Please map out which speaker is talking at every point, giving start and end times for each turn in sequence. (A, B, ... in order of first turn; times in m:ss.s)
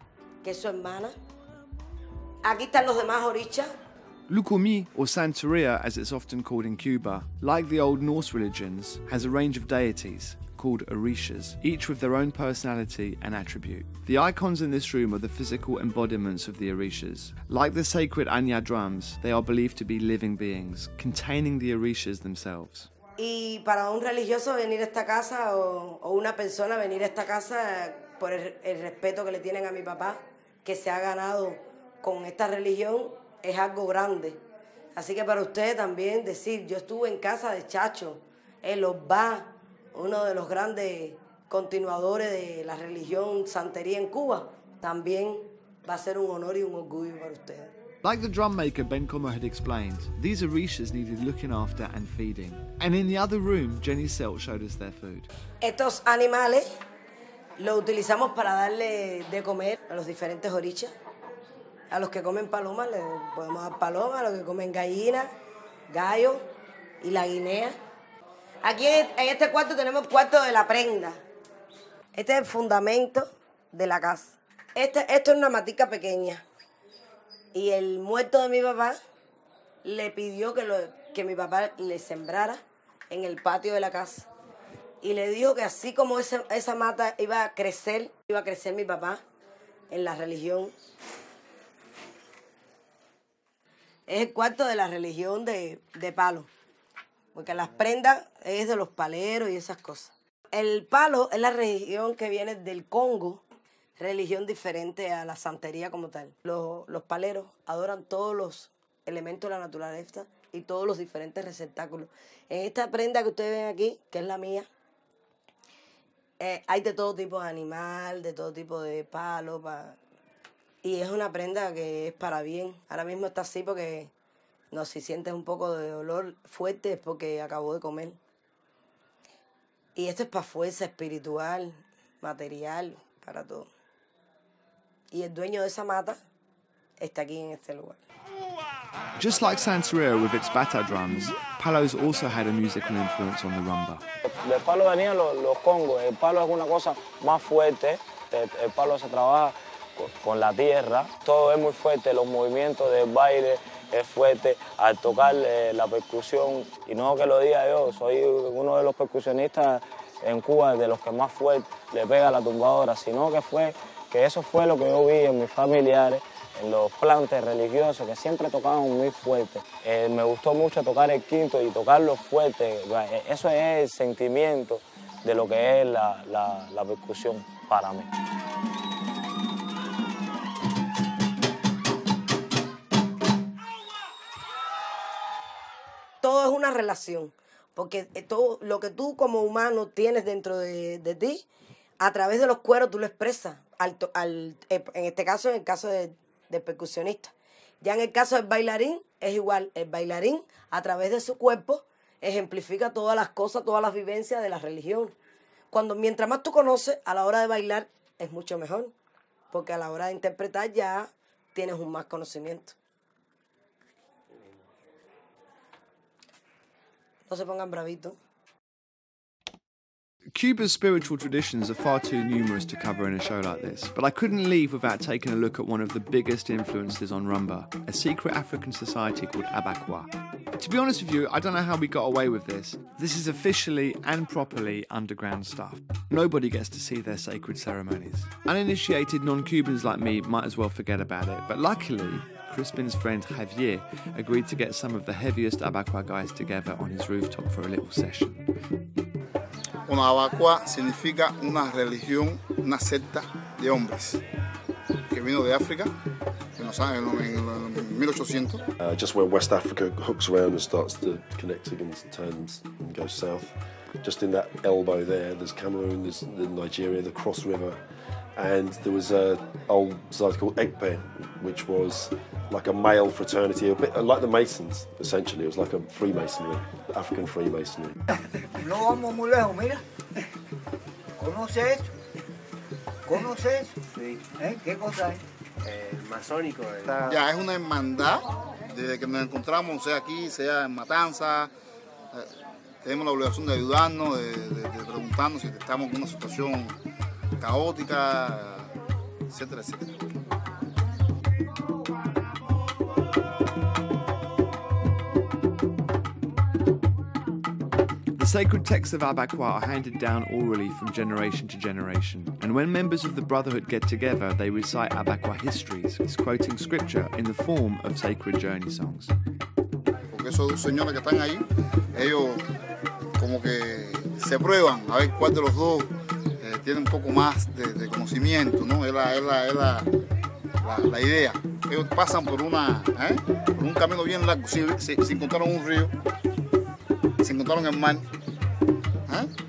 0:00.4-0:01.1 A
0:02.4-0:03.7 A
0:04.3-0:22.9 B
0:23.2-0:34.4 A
0:34.9-0:47.7 A
0:48.0-0:55.3 B
0:55.6-0:56.6 A
0:57.6-1:00.9 A
1:01.9-1:05.3 A
1:05.9-1:06.4 A
1:07.0-1:07.8 A
1:08.6-1:11.2 A
1:12.1-1:16.4 A
1:17.5-1:19.0 A
1:19.8-1:24.3 A
1:25.0-1:29.2 A
1:29.9-1:30.7 A
1:34.1-1:36.5 A
1:37.3-1:43.4 A
1:44.0-1:54.7 A
1:56.4-2:00.0 A
2:00.8-2:04.1 A
2:04.7-2:08.2 A
2:10.0-2:13.7 A
2:15.1-2:16.2 A
2:17.0-2:18.0 A
2:19.2-2:24.0 B
2:24.3-2:58.1 C
3:06.2-3:11.4 A
3:12.0-3:25.1 A
3:25.7-3:28.9 A
3:29.5-3:32.8 A
3:37.3-3:38.2 A
3:40.3-4:08.4 B
4:09.9-4:14.2 D
4:15.1-4:15.9 D
4:16.6-4:18.6 D
4:18.8-4:27.8 E
4:28.4-4:37.9 E
4:38.6-4:39.8 F
4:41.2-4:41.9 F
4:43.0-4:47.2 F
4:47.0-4:51.5 D
4:52.8-4:56.8 D
4:57.4-4:58.7 D
4:59.3-5:00.0 D
5:08.1-5:19.1 B
5:20.1-5:22.4 D
5:23.2-5:29.9 D
5:30.6-5:35.9 D
5:37.2-5:38.1 D